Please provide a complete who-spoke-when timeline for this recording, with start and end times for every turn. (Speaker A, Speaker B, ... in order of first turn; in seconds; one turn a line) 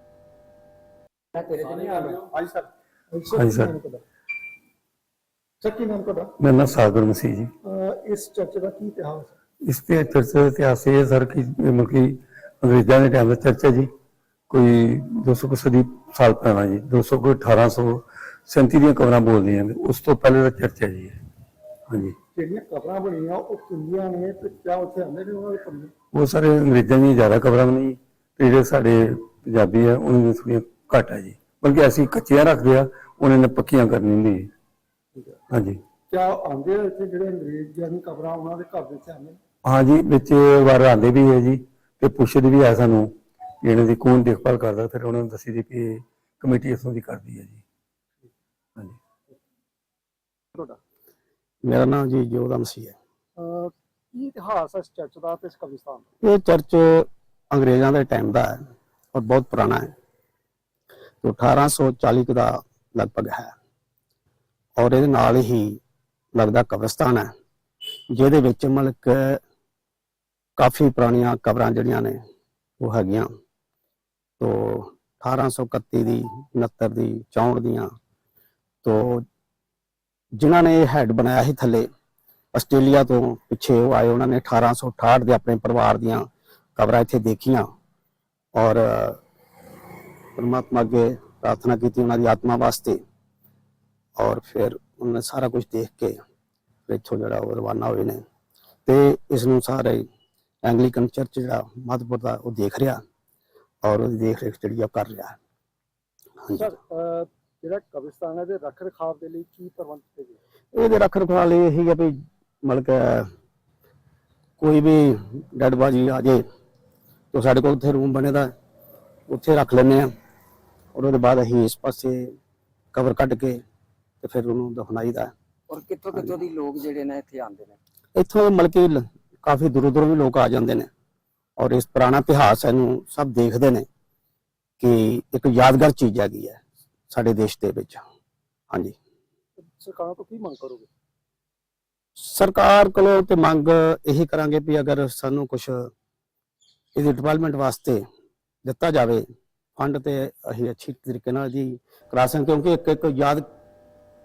Speaker A: 1.4-4.0
Speaker B: 3.3-3.7
Speaker A: 5.6-6.3
Speaker B: 6.4-7.5
Speaker A: 7.6-9.3
Speaker B: 9.6-13.9
Speaker B: 14.5-21.2
Speaker B: 21.9-22.1
Speaker A: 22.3-25.9
Speaker B: 26.1-34.5
Speaker B: 35.5-35.8
Speaker A: 36.1-39.4
Speaker B: 39.6-43.1
Speaker B: 43.6-47.6
Speaker A: 50.5-50.8
Speaker C: 51.6-53.0
Speaker A: 53.4-56.1
Speaker C: 56.2-58.6
Speaker C: 59.1-59.9
Speaker C: 61.2-63.5
Speaker C: 64.8-65.8
Speaker C: 66.3-67.3
Speaker C: 68.1-69.4
Speaker C: 70.6-72.2
Speaker C: 72.8-73.3
Speaker C: 74.4-77.9
Speaker C: 78.8-79.2
Speaker C: 80.3-81.9
Speaker C: 82.5-87.7
Speaker C: 88.5-89.2
Speaker C: 90.3-93.0
Speaker C: 94.2-96.2
Speaker C: 96.9-98.2
Speaker C: 98.8-100.0
Speaker C: 100.6-103.0
Speaker C: 103.8-105.4
Speaker C: 106.4-106.7
Speaker A: 106.6-110.4
Speaker C: 110.7-113.3
Speaker C: 114.6-116.4
Speaker C: 117.3-118.5
Speaker C: 119.3-120.1
Speaker C: 120.9-122.3
Speaker C: 122.9-123.6
Speaker C: 124.2-125.3
Speaker D: 125.8-127.7
Speaker C: 128.1-130.9
Speaker C: 131.6-133.8
Speaker C: 134.8-138.0
Speaker A: 139.6-140.9
Speaker C: 142.2-145.9
Speaker C: 146.9-148.0
Speaker C: 148.6-149.2
Speaker C: 149.8-153.4